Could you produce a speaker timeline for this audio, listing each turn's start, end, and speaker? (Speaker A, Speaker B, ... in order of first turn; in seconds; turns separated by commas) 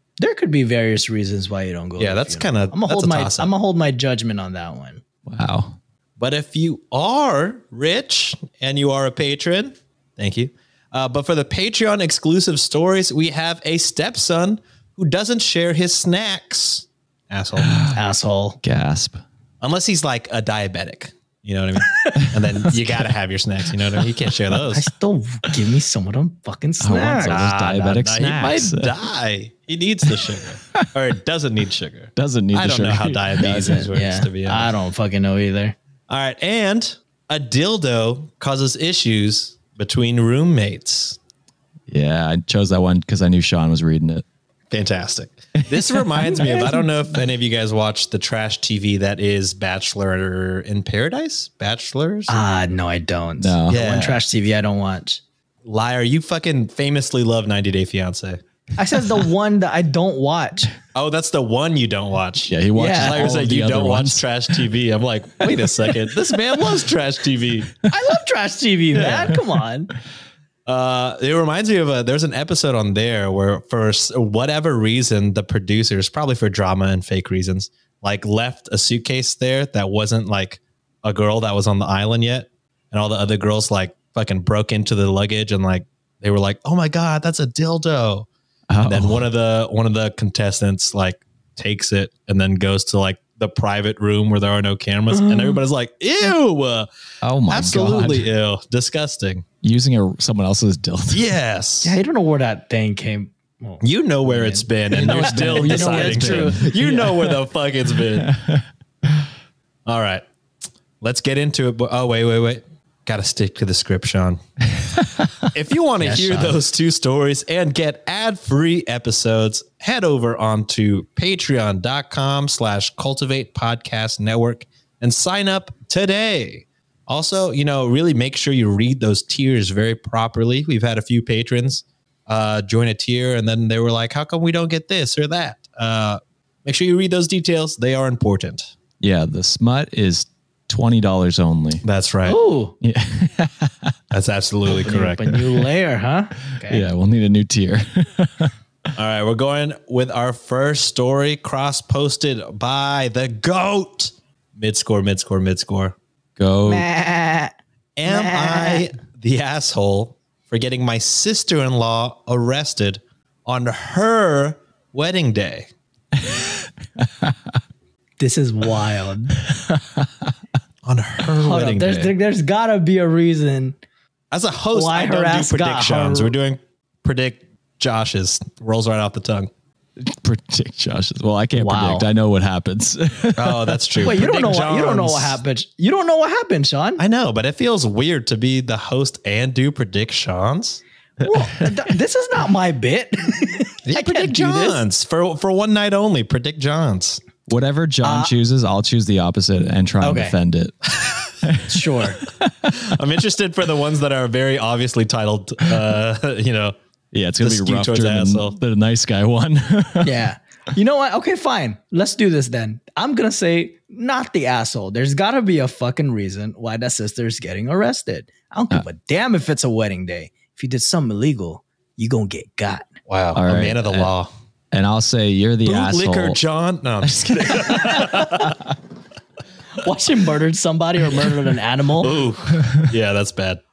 Speaker A: 0.2-5.0, Speaker B: 2.0-3.5, Speaker C: 5.2-5.8, Speaker B: 6.2-17.8, Speaker C: 17.7-17.9, Speaker A: 17.9-18.6, Speaker C: 18.6-19.2, Speaker B: 19.6-24.9, Speaker C: 22.7-23.1, Speaker A: 24.7-27.4, Speaker C: 26.8-28.9, Speaker B: 27.2-34.7, Speaker C: 32.1-33.9, Speaker A: 33.5-35.7, Speaker B: 36.1-41.2, Speaker C: 41.9-44.2, Speaker B: 44.7-52.4, Speaker C: 45.6-46.0, Speaker A: 46.2-47.0, Speaker A: 52.3-55.2, Speaker C: 53.4-53.8, Speaker B: 53.7-54.2, Speaker B: 55.6-58.4, Speaker A: 58.8-60.7, Speaker B: 60.9-67.8, Speaker C: 62.5-64.2, Speaker A: 62.8-63.3, Speaker C: 65.5-65.9, Speaker A: 67.9-69.9, Speaker B: 68.9-69.4, Speaker B: 70.7-88.3, Speaker C: 88.7-89.3, Speaker B: 88.8-96.9, Speaker A: 95.1-95.6, Speaker C: 97.2-98.3, Speaker B: 97.5-99.4, Speaker C: 99.6-101.2, Speaker B: 101.1-102.0, Speaker A: 101.8-107.1, Speaker B: 103.8-108.3, Speaker C: 104.9-107.1, Speaker C: 108.2-108.6, Speaker B: 109.8-110.2, Speaker B: 111.0-114.4, Speaker B: 115.4-138.7, Speaker A: 116.0-116.6, Speaker C: 139.0-141.8, Speaker B: 141.8-142.4, Speaker A: 142.2-142.7, Speaker C: 142.8-143.9, Speaker B: 144.1-145.3, Speaker A: 144.7-146.8, Speaker C: 146.7-148.5, Speaker B: 148.9-155.9, Speaker C: 156.4-156.8, Speaker A: 156.7-157.5, Speaker B: 158.0-165.7, Speaker A: 158.1-158.9, Speaker C: 166.2-167.5, Speaker A: 168.2-169.3, Speaker C: 169.5-170.1, Speaker B: 170.8-172.1, Speaker A: 171.4-173.8, Speaker B: 174.3-179.5, Speaker A: 174.7-176.3, Speaker C: 180.0-183.9, Speaker A: 181.5-182.1, Speaker B: 183.3-185.4, Speaker A: 184.0-187.0, Speaker B: 187.0-190.8, Speaker A: 191.2-194.8, Speaker B: 193.8-197.2, Speaker C: 197.5-200.7, Speaker A: 198.0-198.3, Speaker A: 200.0-200.3, Speaker C: 201.4-202.7, Speaker A: 201.7-202.2, Speaker B: 202.7-206.7, Speaker C: 207.1-210.2, Speaker B: 207.4-208.6, Speaker A: 210.0-222.9, Speaker B: 223.1-224.3, Speaker C: 223.3-224.1, Speaker C: 224.7-226.4, Speaker B: 225.6-228.6, Speaker C: 227.0-227.8, Speaker A: 229.8-232.2, Speaker B: 232.0-233.6